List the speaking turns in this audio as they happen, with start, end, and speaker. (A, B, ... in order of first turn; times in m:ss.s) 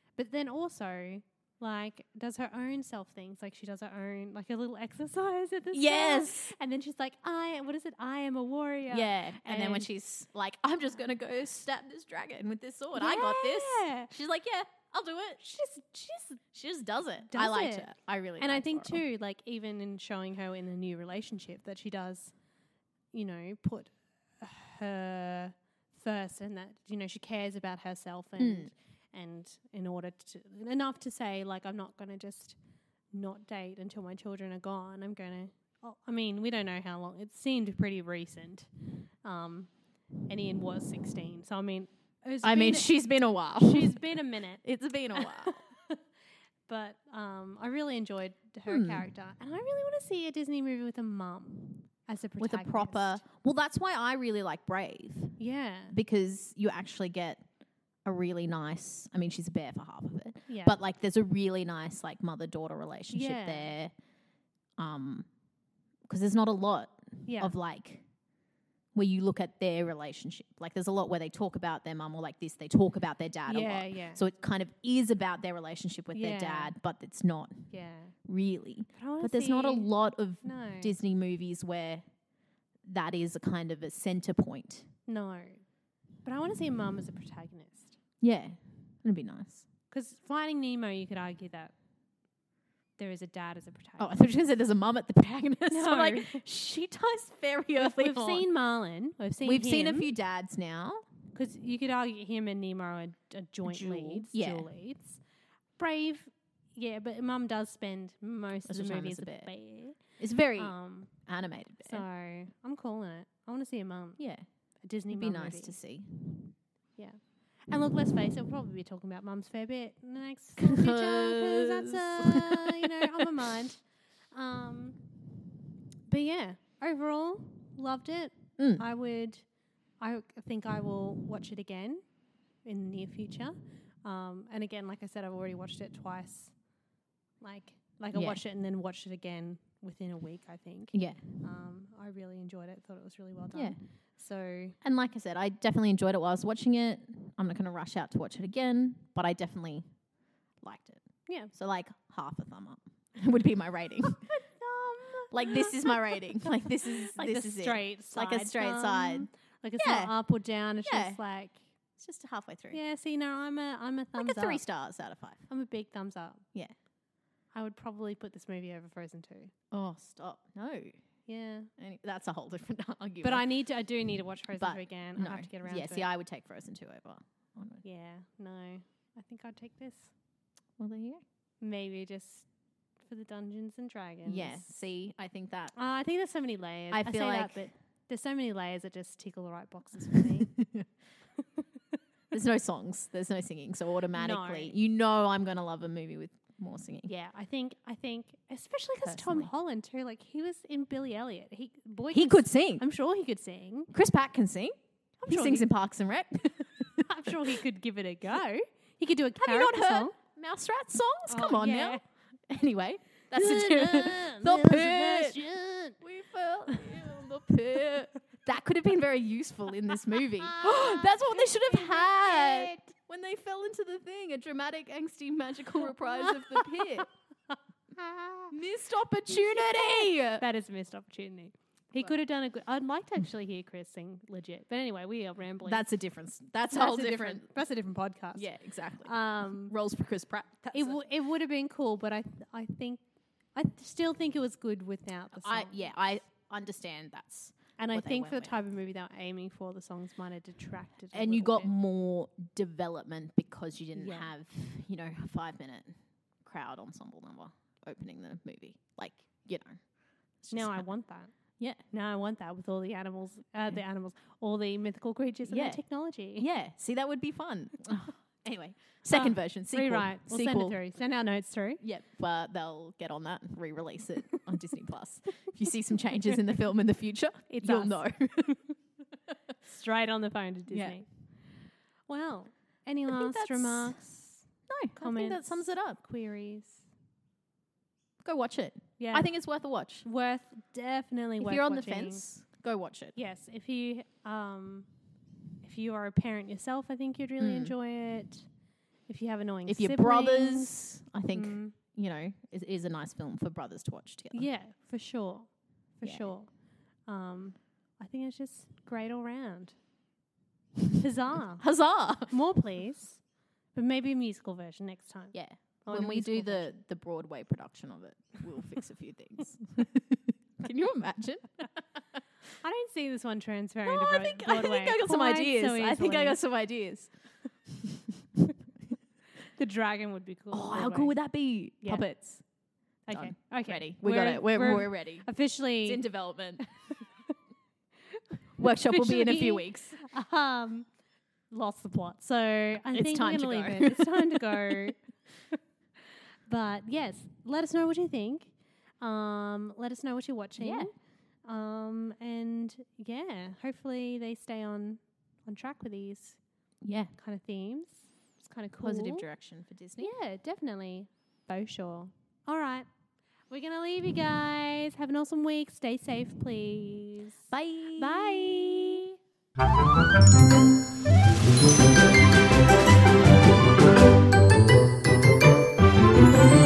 0:00.2-0:09.9 A
0:05.7-0:06.5 B
0:08.9-0:15.4 B
0:12.9-0:14.1 A
0:15.4-0:16.4 A
0:16.5-0:19.0 B
0:17.3-0:22.3 A
0:23.1-0:32.6 A
0:28.4-0:28.7 B
0:33.1-0:38.7 A
0:39.2-0:39.7 A
0:40.3-0:43.0 A
0:42.4-0:45.6 B
0:43.6-0:44.6 A
0:45.2-0:46.0 A
0:46.7-0:53.2 A
0:48.7-0:49.1 B
0:52.4-0:55.4 B
0:55.4-0:56.0 A
0:55.9-0:57.4 B
0:58.0-1:03.9 B
1:00.5-1:00.8 A
1:03.1-1:03.7 A
1:04.8-1:05.3 B
1:06.1-1:08.0 B
1:07.3-1:07.6 A
1:08.9-1:17.7 B
1:13.5-1:14.2 A
1:16.1-1:16.7 A
1:17.7-1:18.2 A
1:18.2-1:22.0 B
1:19.0-1:19.9 A
1:20.4-1:20.9 A
1:22.8-1:24.9 B
1:25.1-1:25.6 A
1:26.2-1:28.0 A
1:28.2-1:29.7 B
1:29.9-1:31.7 A
1:33.0-1:34.1 A
1:34.0-1:38.5 B
1:35.7-1:36.4 A
1:37.8-1:40.1 A
1:39.4-1:41.0 B
1:41.4-1:45.2 A
1:43.7-1:44.7 B
1:45.8-1:50.0 A
1:48.7-1:49.5 B
1:50.2-1:52.0 B
1:50.6-1:51.1 A
1:51.8-1:54.2 A
1:54.2-1:54.5 B
1:54.8-1:55.8 A
1:55.1-1:56.1 B
1:57.0-2:03.8 A
2:00.6-2:03.4 B
2:04.3-2:05.0 A
2:06.1-2:09.4 A
2:08.6-2:08.8 B
2:10.0-2:12.0 A
2:12.6-2:16.5 A
2:17.4-2:24.8 A
2:18.1-2:18.4 B
2:20.9-2:21.2 B
2:24.8-2:29.9 B
2:30.6-2:34.2 B
2:34.2-2:36.3 A
2:35.3-2:40.2 B
2:36.9-2:41.6 A
2:40.8-2:41.2 B
2:42.0-2:42.8 B
2:42.7-2:44.6 A
2:44.2-2:45.4 B
2:45.5-2:46.4 A
2:47.5-2:49.5 A
2:49.7-2:51.0 B
2:51.3-2:51.7 A
2:51.8-2:53.4 B
2:53.2-2:56.1 A
2:54.6-2:57.8 B
2:57.8-3:00.1 A
3:00.8-3:01.2 B
3:01.6-3:02.5 A
3:03.1-3:04.6 A
3:04.2-3:05.8 B
3:05.8-3:10.6 A
3:06.9-3:07.7 B
3:10.1-3:10.9 B
3:12.3-3:17.1 B
3:14.1-3:14.8 A
3:17.1-3:23.9 A
3:19.0-3:19.5 B
3:22.1-3:22.8 B
3:23.9-3:27.3 B
3:25.2-3:25.7 A
3:27.0-3:30.2 A
3:29.4-3:35.4 B
3:31.3-3:32.0 A
3:33.3-3:36.0 A
3:36.0-3:47.1 B
3:40.4-3:42.7 A
3:46.1-3:47.1 A
3:48.0-3:48.5 A
3:48.5-3:50.4 B
3:49.3-3:55.9 A
3:55.6-3:57.5 B
3:56.7-3:58.5 A
3:58.4-4:01.0 B
3:59.0-3:59.7 A
4:00.7-4:03.0 A
4:03.6-4:05.9 A
4:05.3-4:08.6 B
4:07.8-4:11.7 A
4:11.1-4:19.8 B
4:14.0-4:14.3 A
4:20.4-4:20.8 B
4:20.5-4:21.3 A
4:21.9-4:26.5 A
4:25.5-4:25.8 B
4:26.4-4:30.8 B
4:29.1-4:31.8 A
4:31.8-4:38.6 B
4:37.5-4:38.7 A
4:39.6-4:41.1 A
4:40.7-4:41.0 B
4:42.1-4:46.9 A
4:43.1-4:44.0 B
4:44.7-4:46.0 B
4:48.2-4:50.1 B
4:49.0-4:49.3 A
4:50.0-4:52.3 A
4:51.4-4:53.2 B
4:53.2-4:54.9 A
4:55.6-4:58.5 A
4:57.4-4:57.7 B
4:59.1-5:00.7 A
4:59.7-5:04.5 B
5:01.3-5:01.8 A
5:04.3-5:06.5 A
5:06.0-5:06.3 B
5:07.1-5:09.8 A
5:10.9-5:11.6 A
5:11.6-5:12.3 B
5:12.3-5:13.2 A
5:13.7-5:16.7 A
5:15.3-5:21.6 B
5:22.6-5:26.4 A
5:23.9-5:27.1 B
5:27.7-5:28.4 B
5:29.6-5:31.2 A
5:30.5-5:32.4 B
5:31.8-5:32.1 A
5:33.1-5:36.1 A
5:33.1-5:35.3 B
5:35.8-5:36.7 B
5:38.6-5:40.0 B
5:38.6-5:40.9 A
5:41.5-5:45.0 A
5:42.9-5:44.9 B
5:46.5-5:50.9 A
5:50.6-5:50.9 B
5:51.5-5:56.4 A
5:56.8-5:57.1 B
5:57.2-5:59.2 A
5:58.8-6:00.1 B
6:00.0-6:02.9 A
6:03.5-6:09.2 A
6:07.5-6:09.0 B